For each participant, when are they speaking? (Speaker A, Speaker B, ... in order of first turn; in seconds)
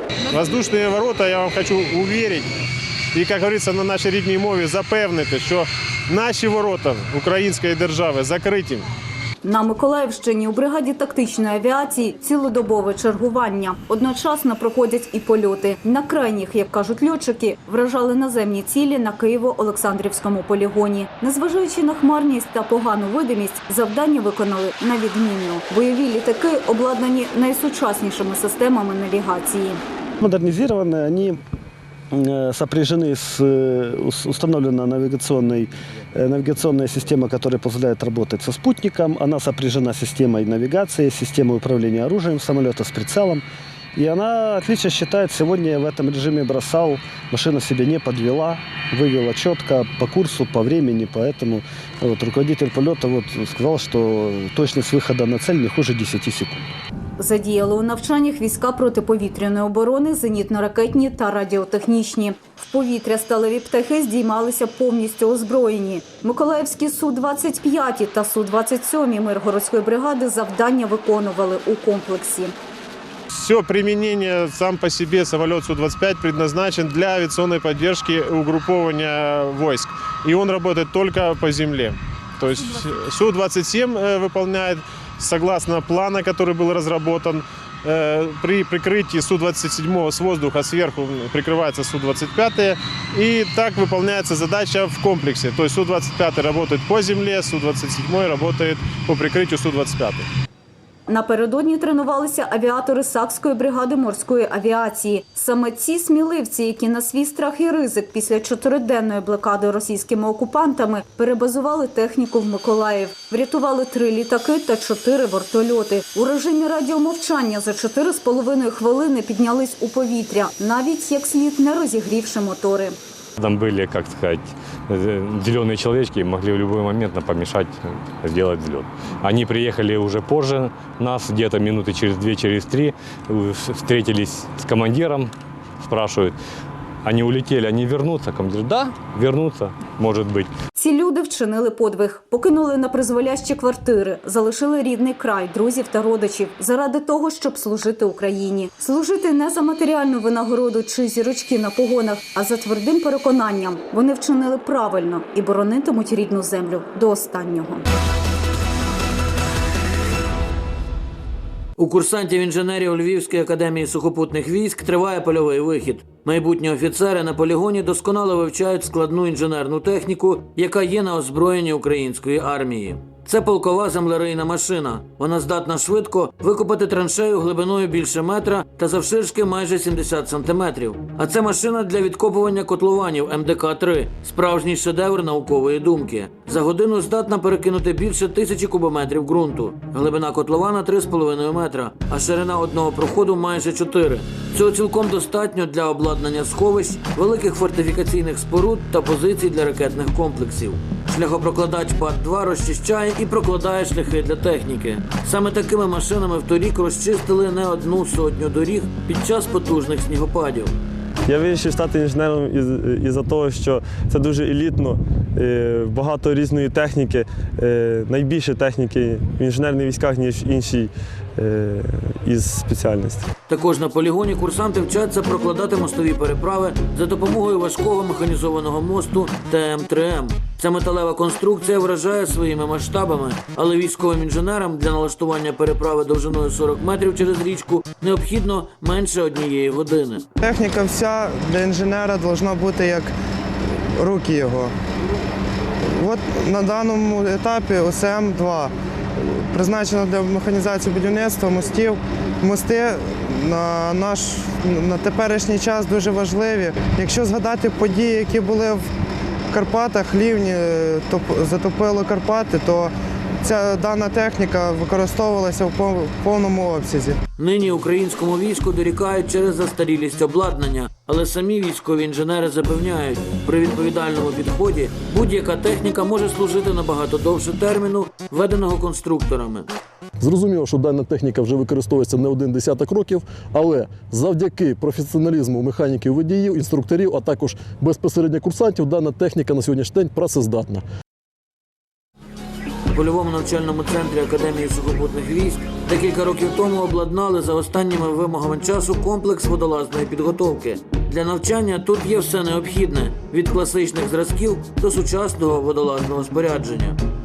Speaker A: 0.3-2.5, 3.1-8.8, 73.3-100.3
Speaker B: 9.4-29.8, 57.2-72.5, 101.1-123.0, 140.8-157.9
Speaker C: 30.2-31.4, 32.1-43.4, 44.0-56.6
Speaker D: 123.4-136.4, 137.0-140.5
Speaker E: 161.8-210.7, 223.5-240.2, 267.4-279.7, 292.9-307.0
Speaker F: 211.3-223.3
Speaker G: 240.4-243.1, 243.9-244.7, 246.0-248.7, 249.2-258.8, 259.5-267.2
Speaker H: 280.2-290.8